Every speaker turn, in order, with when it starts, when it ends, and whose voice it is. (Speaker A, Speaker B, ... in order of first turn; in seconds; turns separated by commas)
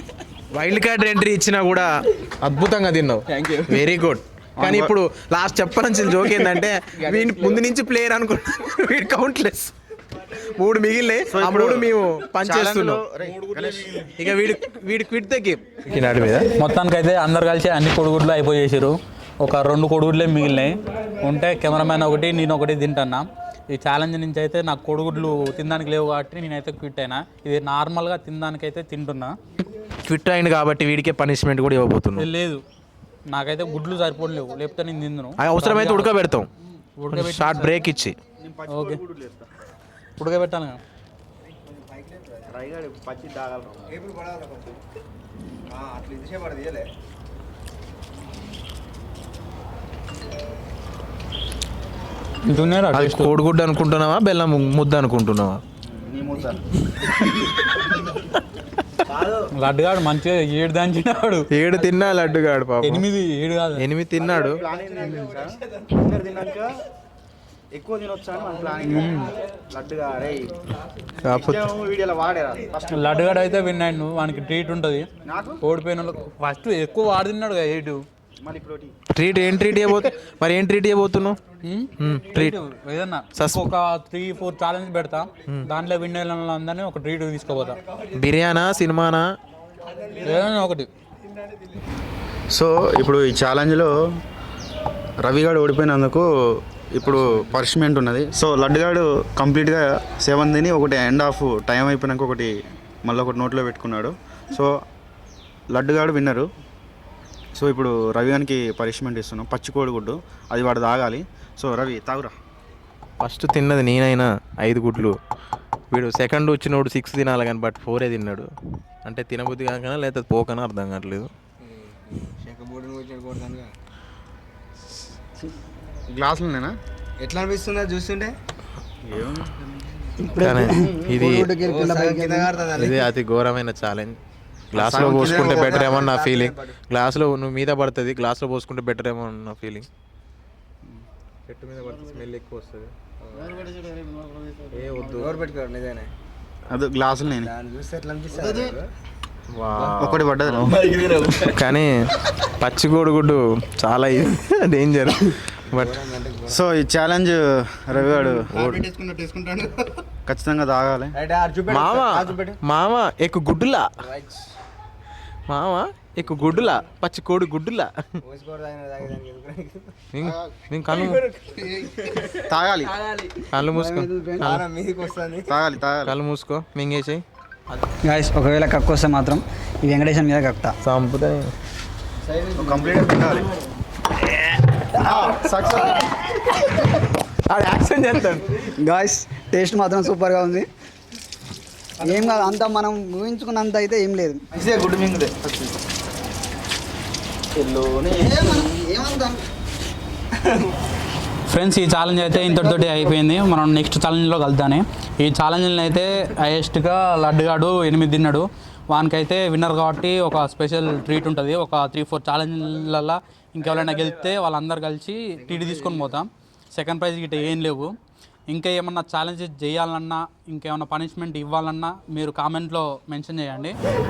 Speaker A: 0.5-13.1, Speaker B: 4.6-5.0, Speaker C: 7.0-7.6, Speaker B: 11.3-13.9, Speaker D: 13.2-14.2, Speaker A: 14.2-16.5, Speaker D: 16.4-29.4, Speaker A: 30.1-32.3, Speaker D: 32.2-32.6, Speaker D: 33.3-36.2, Speaker A: 35.4-36.5, Speaker D: 37.0-37.8, Speaker A: 37.0-38.2, Speaker B: 38.4-39.5, Speaker D: 38.7-39.0, Speaker D: 40.2-40.8, Speaker C: 41.5-42.5, Speaker B: 42.5-43.9, Speaker C: 43.9-44.8, Speaker C: 45.7-46.9, Speaker D: 52.5-53.4, Speaker A: 52.9-55.6, Speaker B: 55.9-56.6, Speaker C: 59.0-59.4, Speaker D: 59.5-61.5, Speaker A: 61.5-63.1, Speaker D: 62.8-63.9, Speaker A: 63.8-64.6, Speaker C: 64.2-66.0, Speaker B: 64.7-66.8, Speaker D: 65.0-65.3, Speaker B: 67.7-69.1, Speaker D: 68.8-69.3, Speaker B: 69.7-70.5, Speaker A: 71.2-71.7, Speaker B: 71.3-72.9, Speaker D: 72.9-75.1, Speaker B: 75.2-75.6, Speaker D: 75.6-78.0, Speaker B: 78.4-78.9, Speaker A: 79.1-81.4, Speaker D: 81.6-87.8, Speaker A: 82.0-82.6, Speaker A: 83.3-83.7, Speaker C: 87.6-88.2, Speaker A: 88.2-89.3, Speaker C: 89.8-90.5, Speaker D: 90.2-90.9, Speaker C: 91.4-91.6, Speaker B: 92.5-93.9, Speaker B: 95.2-96.3, Speaker B: 96.9-102.5, Speaker B: 103.0-104.7, Speaker B: 105.7-106.5, Speaker B: 107.5-112.3, Speaker A: 113.2-115.2, Speaker A: 115.9-118.5, Speaker A: 119.0-121.3, Speaker C: 121.6-123.7, Speaker B: 126.1-126.8, Speaker C: 127.2-128.3, Speaker B: 129.1-129.6, Speaker A: 130.4-131.5, Speaker C: 130.7-133.0, Speaker A: 132.7-134.2, Speaker A: 134.7-139.9, Speaker C: 134.8-136.8, Speaker B: 134.8-135.8, Speaker A: 141.5-142.9, Speaker C: 143.3-143.7, Speaker B: 143.6-144.7, Speaker A: 144.7-145.4, Speaker C: 145.1-146.1, Speaker B: 146.7-147.5, Speaker C: 147.3-148.9, Speaker B: 148.4-148.8, Speaker A: 149.5-150.3, Speaker B: 149.9-150.7, Speaker A: 151.5-156.0, Speaker C: 155.7-156.6, Speaker B: 156.5-158.5, Speaker A: 158.5-158.9, Speaker B: 160.3-161.1, Speaker C: 161.1-162.6, Speaker A: 161.7-163.9, Speaker C: 164.0-164.4, Speaker A: 165.5-168.2, Speaker C: 166.2-166.8, Speaker C: 168.2-170.4, Speaker A: 170.1-171.2, Speaker C: 170.9-172.4, Speaker B: 172.5-172.9, Speaker C: 173.1-173.3, Speaker A: 173.5-174.6, Speaker C: 174.4-175.7, Speaker B: 175.6-176.1, Speaker A: 176.0-178.0, Speaker E: 178.1-180.7, Speaker A: 180.8-181.5, Speaker C: 182.3-183.0, Speaker B: 182.6-183.5, Speaker B: 185.0-185.9, Speaker A: 187.5-188.7, Speaker E: 188.9-190.7, Speaker E: 192.1-194.2, Speaker B: 194.5-195.7, Speaker B: 197.5-199.0, Speaker E: 199.0-199.3, Speaker D: 201.5-217.9, Speaker C: 215.4-216.1, Speaker D: 218.5-223.8